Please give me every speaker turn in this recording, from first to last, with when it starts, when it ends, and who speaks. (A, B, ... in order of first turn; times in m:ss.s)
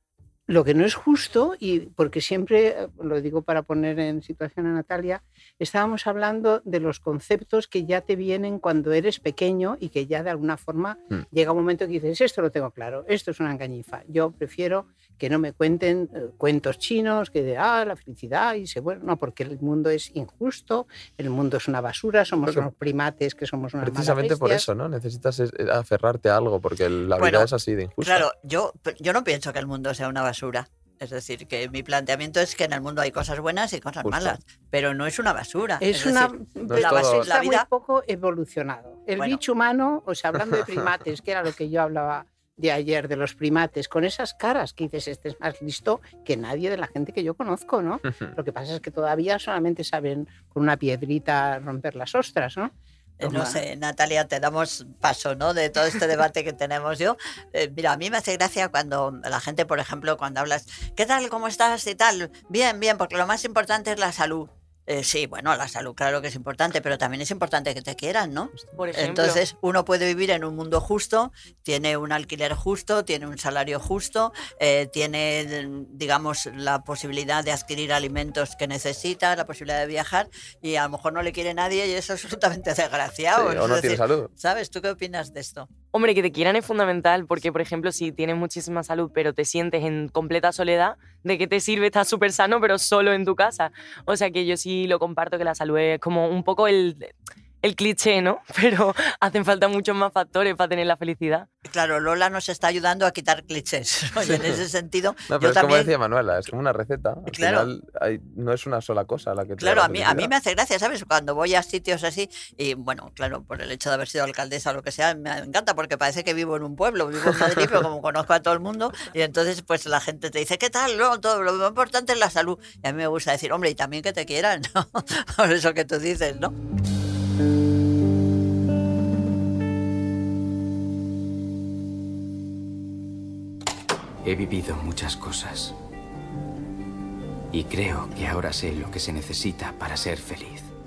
0:00.5-0:24.6 A
0:23.8-0:28.3 B
0:27.2-0:27.5 C
0:28.0-0:37.6 C
0:34.0-0:34.4 B
0:35.8-0:52.7 A
0:36.7-0:37.3 B
0:53.2-1:25.7 C
0:53.2-0:53.6 A
1:08.7-1:09.4 D
1:23.4-1:24.3 B
1:25.9-1:41.5 D
1:41.7-1:45.9 C
1:45.3-1:50.3 B
1:47.3-1:47.7 C
1:49.6-2:06.5 C
2:14.2-2:15.7 E
2:17.5-2:20.7 E